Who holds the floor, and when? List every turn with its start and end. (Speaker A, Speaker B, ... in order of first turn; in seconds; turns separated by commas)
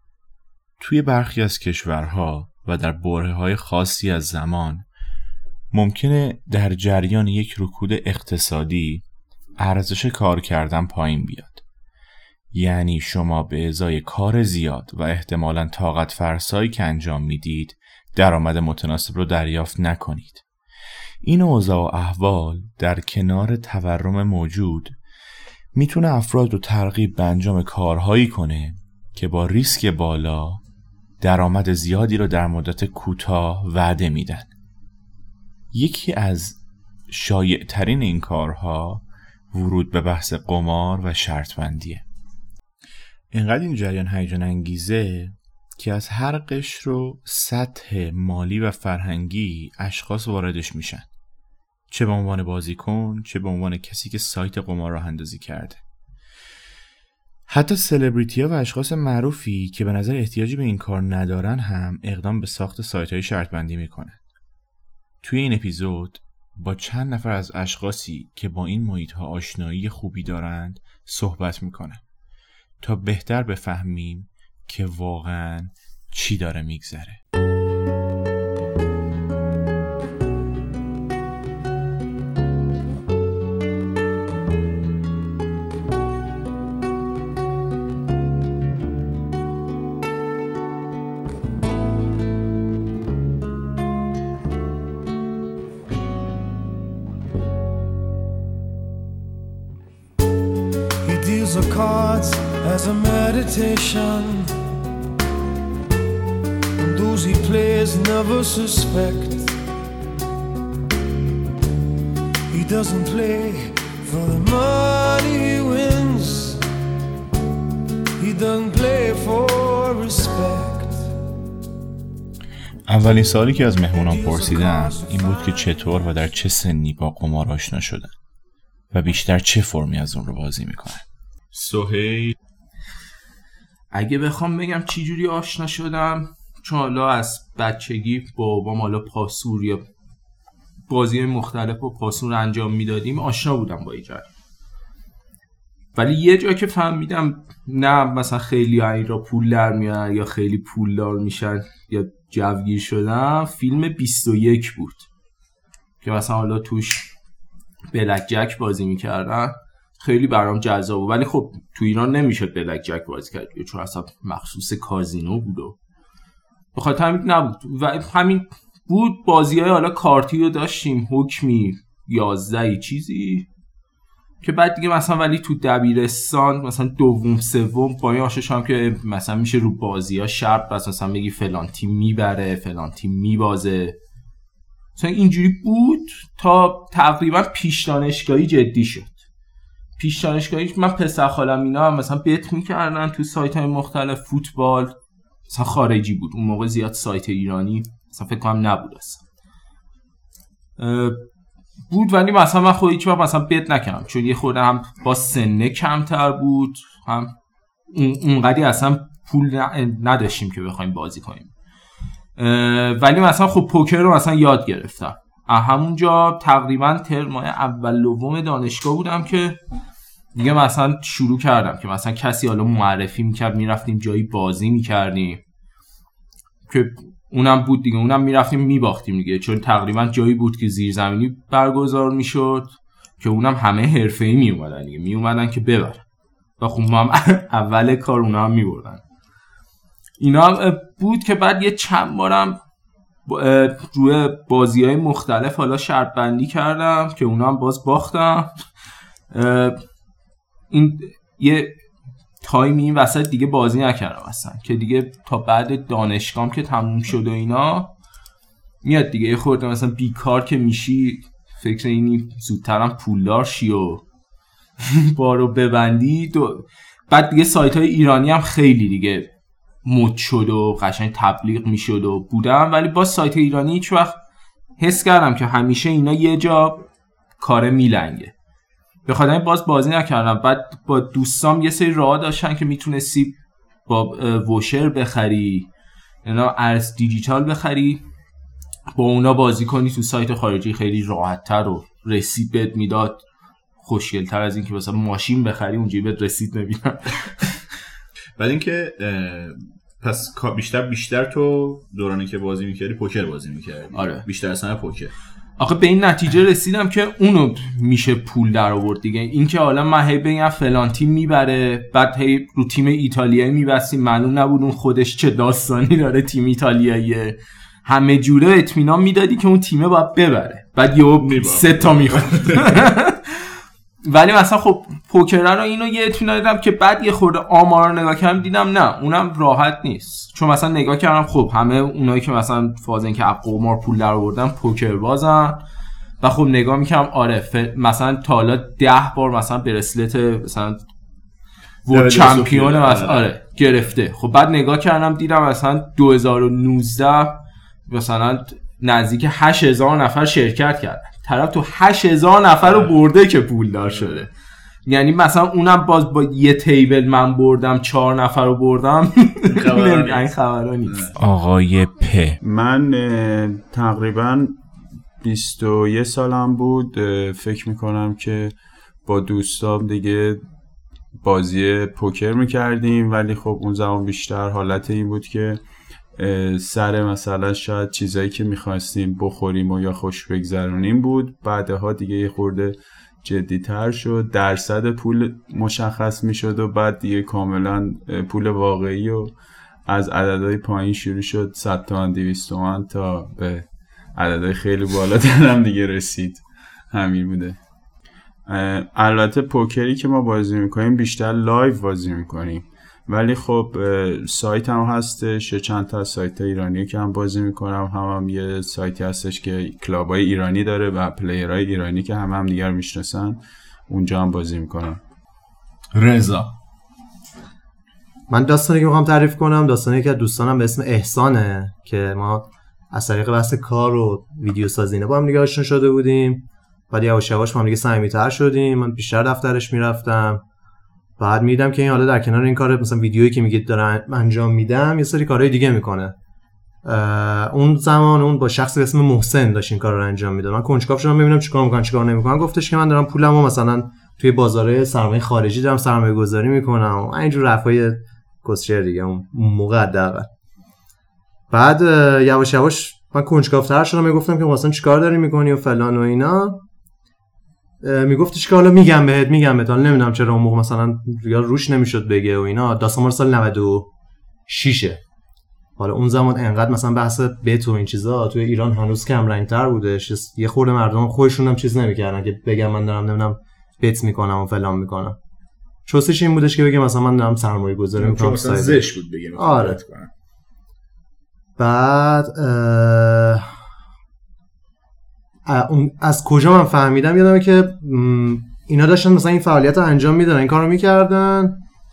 Speaker A: 0.8-4.9, Speaker A: 5.7-9.1, Speaker A: 9.6-11.6, Speaker A: 12.5-20.4, Speaker A: 21.2-25.0, Speaker A: 25.7-30.6, Speaker A: 31.2-34.5, Speaker A: 35.7-42.0, Speaker A: 43.3-51.1, Speaker A: 51.9-55.8, Speaker A: 57.5-64.2, Speaker A: 65.2-72.0, Speaker A: 72.8-77.2, Speaker B: 101.0-104.6, Speaker B: 106.8-109.6, Speaker B: 112.5-116.6, Speaker B: 118.2-121.1, Speaker A: 122.9-128.2, Speaker B: 123.9-125.7, Speaker A: 128.9-131.1, Speaker C: 131.5-132.3, Speaker D: 133.9-139.8, Speaker D: 140.9-144.3, Speaker D: 145.9-155.1, Speaker D: 156.0-157.1, Speaker D: 157.9-165.8, Speaker D: 166.7-173.5, Speaker D: 174.4-184.0, Speaker D: 185.0-189.2, Speaker D: 190.0-195.0, Speaker D: 195.5-199.2, Speaker D: 200.8-201.2, Speaker D: 201.9-207.3, Speaker D: 207.9-211.5, Speaker D: 212.4-219.6, Speaker D: 220.3-225.4, Speaker D: 226.7-236.0, Speaker D: 236.6-239.0, Speaker D: 240.2-242.6, Speaker D: 243.3-248.7, Speaker D: 249.3-249.9, Speaker D: 250.7-251.8, Speaker D: 252.4-257.9, Speaker D: 258.8-264.0, Speaker D: 264.8-269.3, Speaker D: 269.8-274.2, Speaker D: 274.8-276.9, Speaker D: 277.4-278.3, Speaker D: 279.1-285.7, Speaker D: 286.2-288.0, Speaker D: 289.0-293.2, Speaker D: 293.8-297.5, Speaker C: 298.4-305.1, Speaker D: 303.9-304.2, Speaker D: 305.6-323.5, Speaker C: 321.2-322.8, Speaker D: 324.1-335.6, Speaker D: 336.2-340.9, Speaker D: 341.9-354.3, Speaker C: 341.9-343.3, Speaker C: 352.6-353.0, Speaker C: 353.8-354.3, Speaker D: 354.9-361.1, Speaker C: 359.5-361.1, Speaker A: 361.2-362.4, Speaker E: 362.4-364.6, Speaker E: 365.2-368.5, Speaker E: 369.1-370.4, Speaker E: 371.2-375.6, Speaker E: 376.2-389.3, Speaker E: 389.9-397.6, Speaker E: 398.5-415.0, Speaker C: 415.9-416.5, Speaker F: 418.3-430.4, Speaker F: 431.2-436.1, Speaker F: 436.8-450.3, Speaker F: 451.5-456.6, Speaker F: 457.8-463.9, Speaker F: 464.5-465.0, Speaker F: 465.8-475.2, Speaker F: 475.9-479.8, Speaker C: 478.0-480.1, Speaker F: 481.6-483.5, Speaker F: 485.4-491.6